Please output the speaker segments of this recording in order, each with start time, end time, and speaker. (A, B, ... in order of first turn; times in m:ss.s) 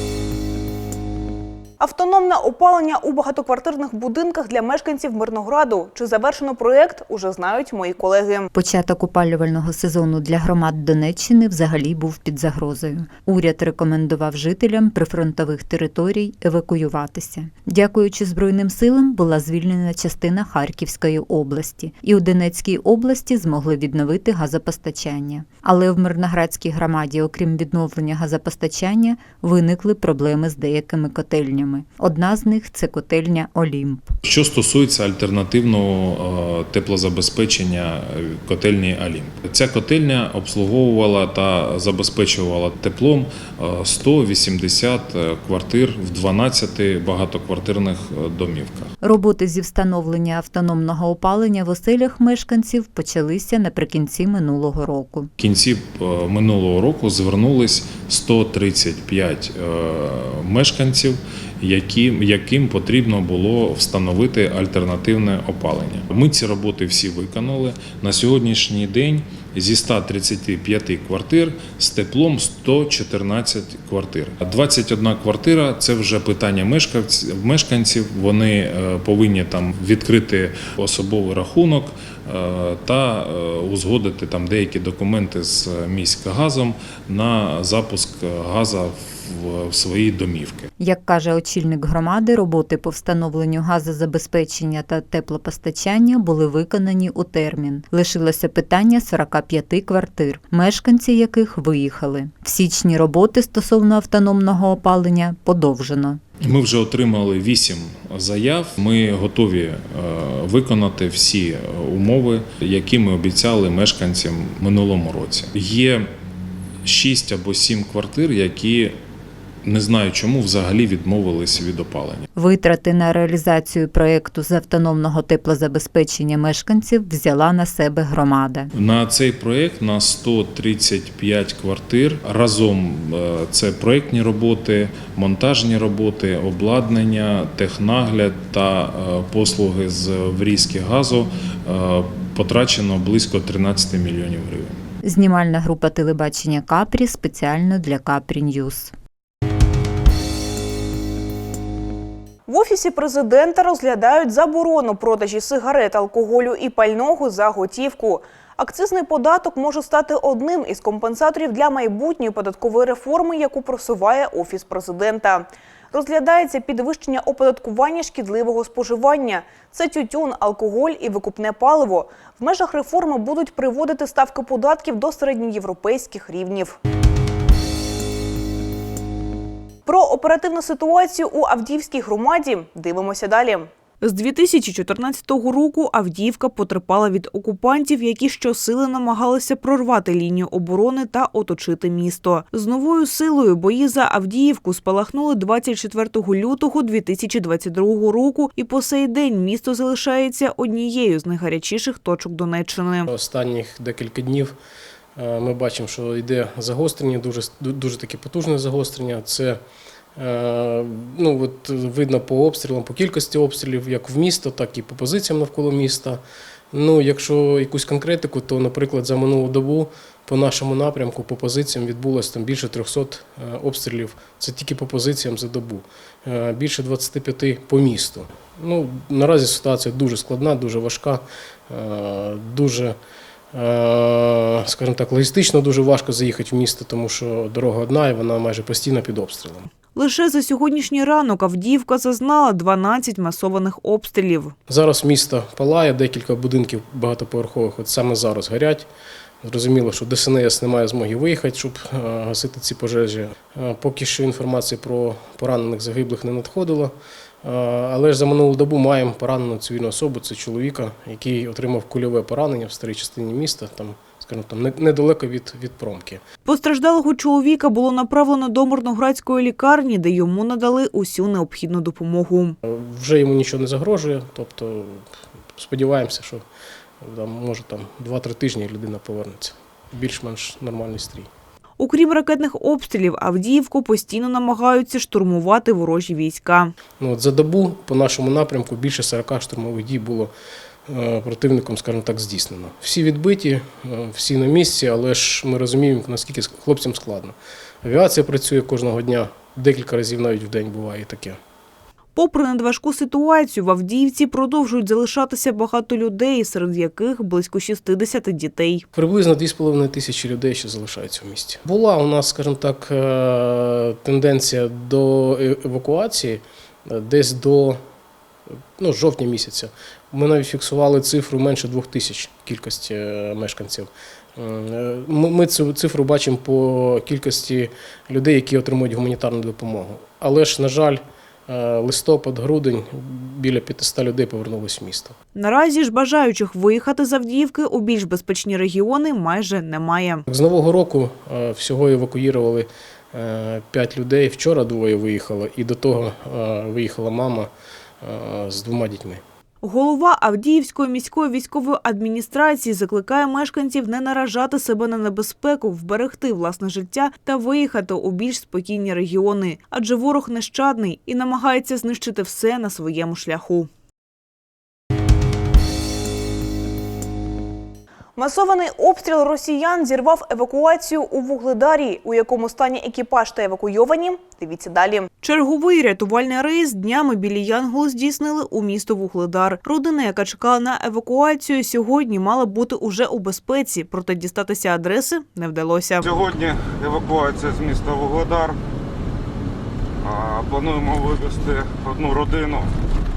0:01.8-0:08.5 A
0:08.5-0:34.1 B
0:34.2-0:48.9 C
0:49.0-0:55.3 B
0:55.4-1:30.7 C
1:30.8-1:46.2 B
1:46.4-1:56.1 C
1:56.8-1:59.0 C
1:59.6-2:02.3 C
2:02.4-2:08.7 B
2:08.7-2:24.8 C
2:25.0-2:28.9 B
2:32.5-2:56.8 A
2:59.9-3:03.7 A
3:04.0-3:23.1 D
3:23.1-3:24.6 E
3:25.2-3:29.6 E
3:30.2-3:36.2 E
3:36.7-3:53.0 E
3:53.5-3:59.7 E
3:59.9-4:04.6 D
4:04.7-4:08.9 E
4:09.4-4:26.2 E
4:26.4-4:32.6 D
4:32.6-4:36.4 E
4:37.0-4:41.3 E
4:41.8-4:46.7 D
4:46.9-4:50.3 E
4:50.9-5:01.4 E
5:02.2-5:08.8 D
5:08.9-5:17.8 E
5:18.8-5:35.2 E
5:35.3-5:40.2 D
5:40.3-5:49.2 E
5:49.6-6:03.7 D
6:08.2-6:15.1 A
6:15.2-6:26.0 D
6:26.0-6:28.6 F
6:30.0-6:32.7 F